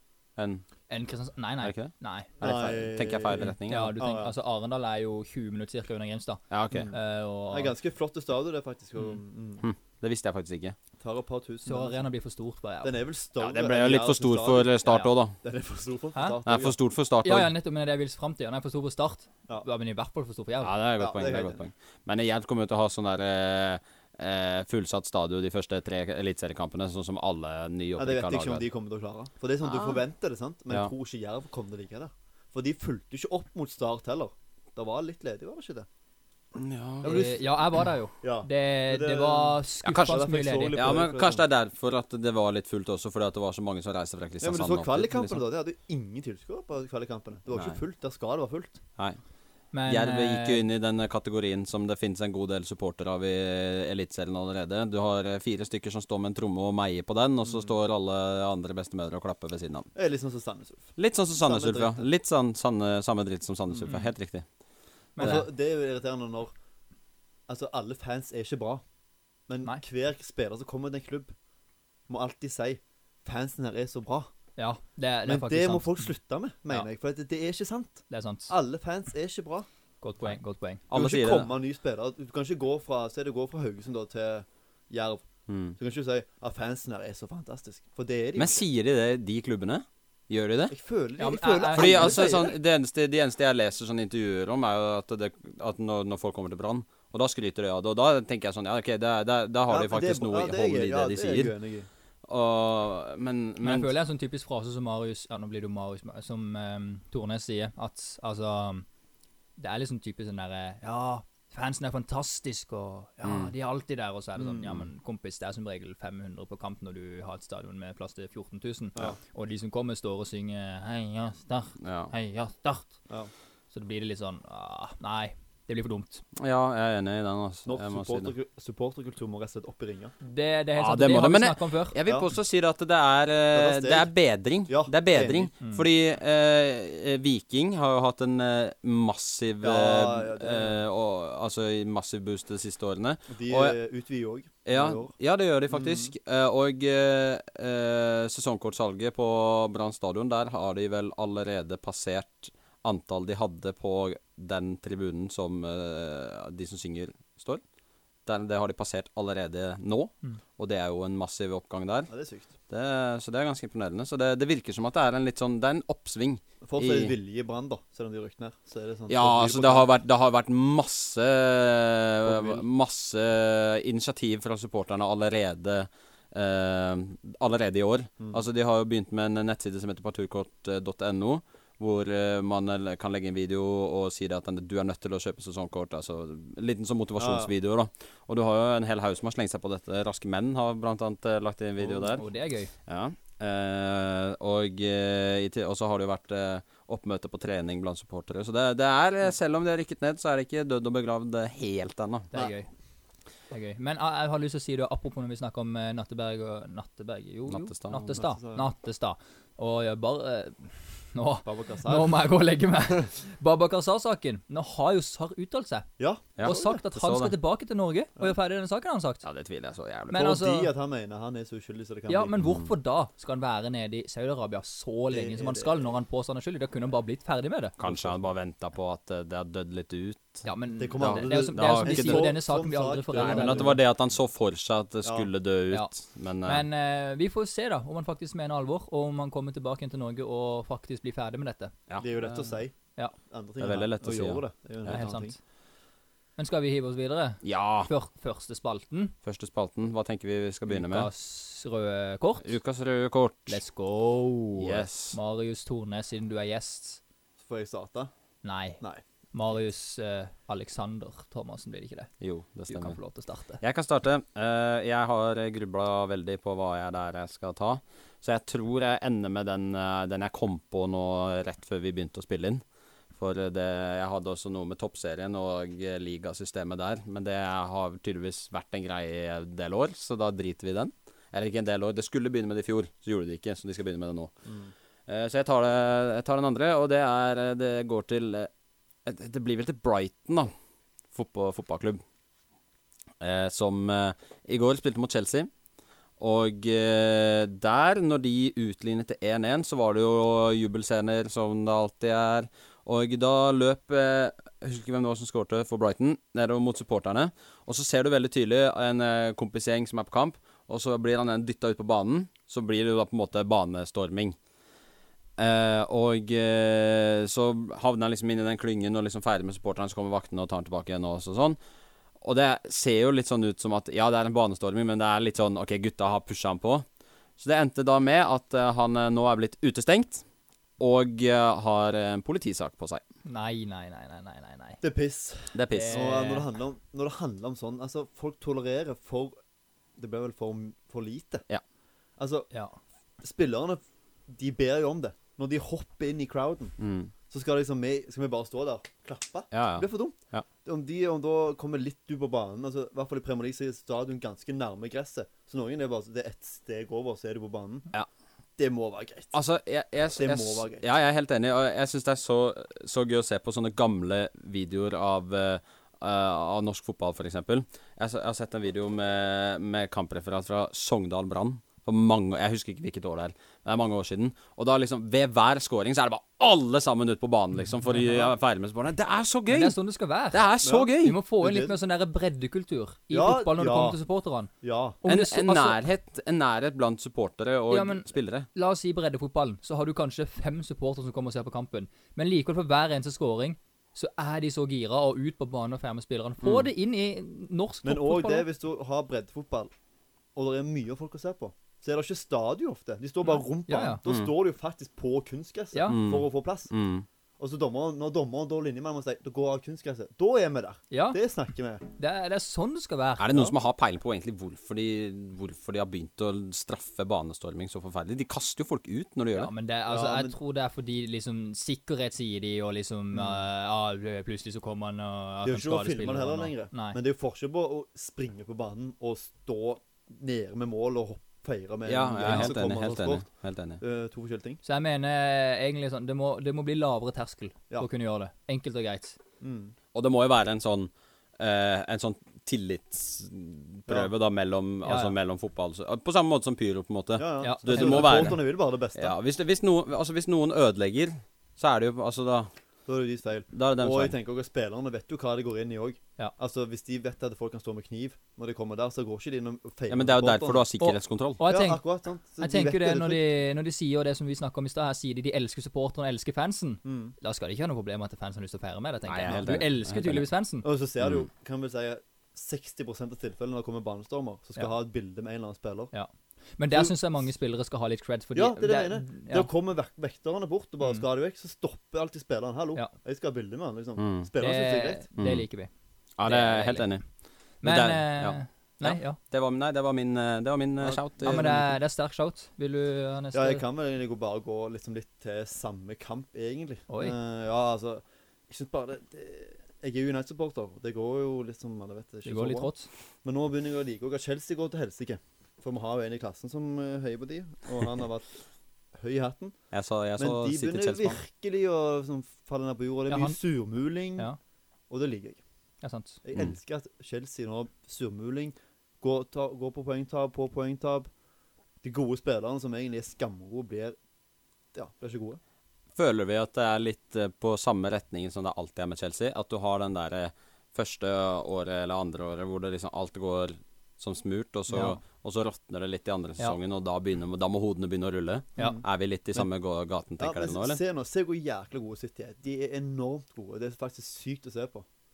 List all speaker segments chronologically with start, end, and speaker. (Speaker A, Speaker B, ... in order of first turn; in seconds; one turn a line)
Speaker A: 0.4-0.6
Speaker B: 0.9-2.3
Speaker A: 1.6-3.9
Speaker C: 2.4-4.3
Speaker B: 3.6-7.7
Speaker A: 6.5-6.9
Speaker C: 7.5-9.7
Speaker A: 9.6-10.7
Speaker C: 11.0-12.0
Speaker B: 11.6-13.0
Speaker C: 12.8-16.8
Speaker A: 13.4-15.4
Speaker B: 14.8-15.1
Speaker B: 16.1-16.4
Speaker A: 16.4-17.5
Speaker B: 17.2-20.7
Speaker A: 20.6-28.7
Speaker C: 21.0-21.6
Speaker C: 28.0-35.9
Speaker A: 29.6-30.0
Speaker A: 36.5-37.3
Speaker C: 37.0-37.4
Speaker B: 37.0-40.8
Speaker C: 38.2-41.4
Speaker A: 39.8-40.2
Speaker A: 40.7-45.4
Speaker C: 44.4-48.8
Speaker A: 47.5-47.8
Speaker B: 49.7-50.6
Speaker A: 49.9-59.9
Speaker C: 59.9-62.1
Speaker A: 61.0-64.4
Speaker B: 65.2-65.4
Speaker C: 65.2-66.5
Speaker C: 67.5-68.8
Speaker C: 69.5-71.3
Speaker C: 72.1-74.3
Speaker B: 74.6-76.0
Speaker C: 75.2-79.7
Speaker B: 78.1-78.5
Speaker B: 80.0-80.8
Speaker A: 80.9-81.5
Speaker C: 80.9-85.2
Speaker A: 85.5-85.8
Speaker C: 85.8-88.6
Speaker A: 88.3-90.7
Speaker C: 90.7-92.5
Speaker B: 91.2-92.3
Speaker A: 91.7-101.5
Speaker C: 99.7-101.9
Speaker A: 102.3-103.9
Speaker B: 103.6-108.8
Speaker B: 109.6-123.0
Speaker A: 113.2-113.5
Speaker C: 114.4-114.8
Speaker A: 121.8-122.1
Speaker B: 123.7-126.2
Speaker A: 126.3-128.3
Speaker C: 127.7-130.1
Speaker B: 130.2-131.9
Speaker A: 130.8-143.8
Speaker C: 133.5-134.1
Speaker C: 134.7-135.5
Speaker C: 139.6-140.8
Speaker C: 143.3-145.1
Speaker A: 144.6-157.6
Speaker C: 145.7-146.1
Speaker A: 158.2-162.1
Speaker C: 162.1-162.5
Speaker A: 162.7-167.1
Speaker C: 166.6-169.9
Speaker A: 169.1-192.3
Speaker C: 172.2-172.6
Speaker C: 187.2-187.5
Speaker C: 191.8-192.2
Speaker B: 192.1-192.7
Speaker A: 192.8-202.3
Speaker B: 202.3-202.7
Speaker B: 203.5-219.2
Speaker A: 207.5-208.2
Speaker C: 208.1-208.7
Speaker C: 211.4-212.2
Speaker C: 216.0-216.8
Speaker A: 216.4-217.3
Speaker A: 219.2-220.3
Speaker B: 220.1-220.7
Speaker C: 220.1-222.4
Speaker B: 222.1-227.8
Speaker C: 225.1-226.0
Speaker A: 227.8-230.4
Speaker C: 227.8-228.1
Speaker B: 230.4-233.8
Speaker C: 230.8-233.8
Speaker A: 231.0-232.3
Speaker A: 233.2-236.6
Speaker C: 235.0-235.3
Speaker B: 236.4-241.7
Speaker A: 241.9-242.5
Speaker C: 242.0-245.3
Speaker A: 243.6-245.0
Speaker B: 244.9-245.4
Speaker B: 246.4-249.1
Speaker A: 247.4-247.9
Speaker A: 249.2-251.1
Speaker B: 250.7-252.5
Speaker A: 252.4-253.6
Speaker B: 253.5-257.0
Speaker A: 254.6-255.2
Speaker C: 257.4-258.1
Speaker B: 258.4-258.8
Speaker B: 259.3-262.1
Speaker A: 262.2-263.0
Speaker B: 262.7-263.6
Speaker A: 263.6-272.6
Speaker A: 273.1-284.3
Speaker A: 285.1-288.5
Speaker A: 289.0-290.5
Speaker A: 291.1-292.0
Speaker A: 293.2-295.5
Speaker A: 296.2-314.4
Speaker A: 315.4-321.6
Speaker A: 322.2-326.9
Speaker A: 327.4-330.2
Speaker A: 330.8-333.0
Speaker B: 333.2-334.8
Speaker C: 334.8-339.3
Speaker A: 335.5-336.2
Speaker B: 335.7-336.5
Speaker C: 340.0-341.4
Speaker C: 342.2-342.5
Speaker B: 342.5-342.8
Speaker C: 343.2-346.7
Speaker A: 346.8-347.1
Speaker C: 347.3-357.9
Speaker A: 349.5-350.4
Speaker C: 358.6-359.3
Speaker A: 359.3-379.8
Speaker C: 360.2-360.9
Speaker B: 377.9-378.3
Speaker B: 379.5-385.8
Speaker A: 380.3-381.2
Speaker C: 380.6-381.7
Speaker C: 383.1-384.0
Speaker C: 384.6-385.0
Speaker A: 385.1-388.5
Speaker B: 387.7-398.5
Speaker A: 396.4-396.7
Speaker C: 397.8-399.7
Speaker C: 400.3-406.7
Speaker B: 403.7-404.0
Speaker B: 405.7-406.0
Speaker A: 405.9-407.1
Speaker C: 407.4-411.8
Speaker B: 410.9-411.2
Speaker B: 412.0-413.5
Speaker A: 413.2-419.5
Speaker B: 419.3-427.0
Speaker C: 419.9-420.3
Speaker C: 425.4-433.3
Speaker A: 431.9-433.8
Speaker B: 432.2-432.5
Speaker C: 433.8-434.6
Speaker B: 434.6-439.2
Speaker C: 439.4-439.7
Speaker A: 439.9-452.5
Speaker B: 444.8-445.1
Speaker C: 447.2-449.1
Speaker B: 447.4-448.4
Speaker C: 452.9-460.6
Speaker A: 453.5-454.1
Speaker A: 459.9-461.4
Speaker B: 460.8-461.8
Speaker C: 461.4-463.2
Speaker B: 462.4-470.6
Speaker C: 466.8-467.1
Speaker A: 469.0-470.3
Speaker C: 470.6-475.9
Speaker A: 471.0-471.3
Speaker B: 475.9-479.5
Speaker C: 476.7-476.9
Speaker C: 478.3-485.0
Speaker A: 484.0-484.3
Speaker B: 484.4-485.7
Speaker A: 485.2-485.4
Speaker A: 486.2-487.1
Speaker B: 486.2-486.9
Speaker B: 487.6-489.2
Speaker A: 487.6-491.6
Speaker C: 490.8-491.7
Speaker B: 491.2-493.6
Speaker C: 493.3-502.7
Speaker B: 496.9-497.1
Speaker B: 502.2-502.9
Speaker C: 503.2-508.4
Speaker C: 508.9-509.6
Speaker A: 509.7-511.2
Speaker C: 510.2-514.3
Speaker B: 513.1-513.4
Speaker C: 514.9-515.4
Speaker B: 515.8-516.2
Speaker C: 516.2-521.1
Speaker C: 521.8-524.0
Speaker C: 524.7-525.4
Speaker A: 526.0-540.8
Speaker B: 534.7-535.0
Speaker C: 538.6-539.5
Speaker C: 540.2-544.9